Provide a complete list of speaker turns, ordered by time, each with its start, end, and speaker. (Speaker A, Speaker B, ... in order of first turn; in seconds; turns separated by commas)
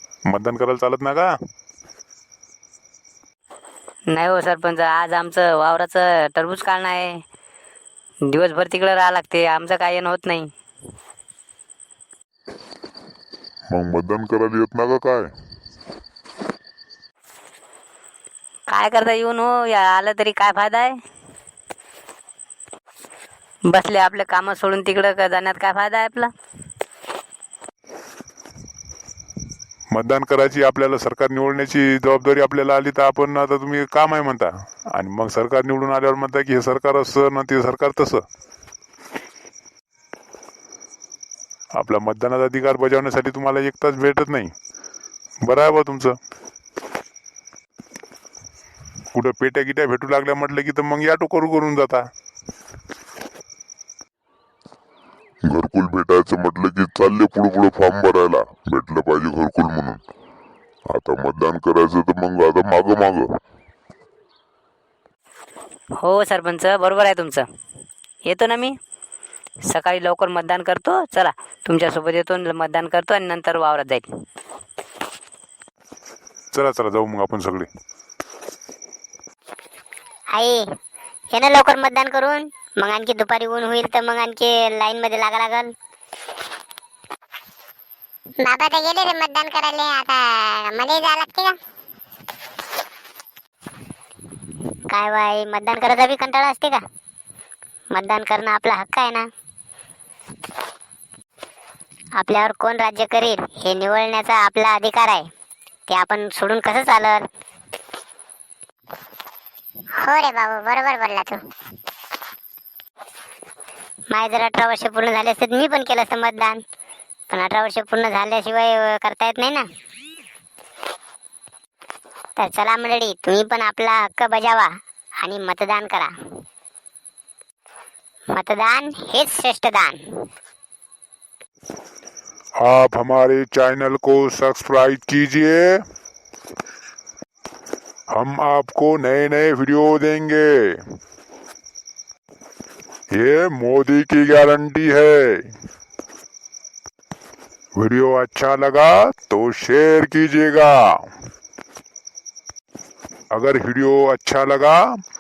Speaker A: 0.3-1.3, Speaker B: 4.1-7.2, Speaker B: 8.3-10.5, Speaker C: 13.7-15.3, Speaker B: 18.7-21.0, Speaker B: 23.7-26.3, Speaker A: 29.9-38.2, Speaker A: 41.8-44.5, Speaker A: 45.5-46.2, Speaker A: 49.1-52.1, Speaker C: 55.5-60.0, Speaker C: 60.9-63.4, Speaker B: 66.0-67.5, Speaker B: 68.2-68.8, Speaker B: 69.7-74.1, Speaker A: 76.5-77.7, Speaker D: 80.3-80.7, Speaker D: 81.3-85.7, Speaker D: 88.4-91.6, Speaker D: 94.9-96.8, Speaker D: 97.9-99.3, Speaker D: 102.2-105.3, Speaker D: 105.9-107.3, Speaker D: 110.0-111.4, Speaker D: 114.1-116.6, Speaker D: 117.3-119.7, Speaker D: 122.4-126.1, Speaker D: 128.3-130.0, Speaker A: 132.6-135.8, Speaker A: 138.1-140.8, Speaker A: 143.2-145.5, Speaker A: 147.8-151.0, Speaker A: 153.3-154.8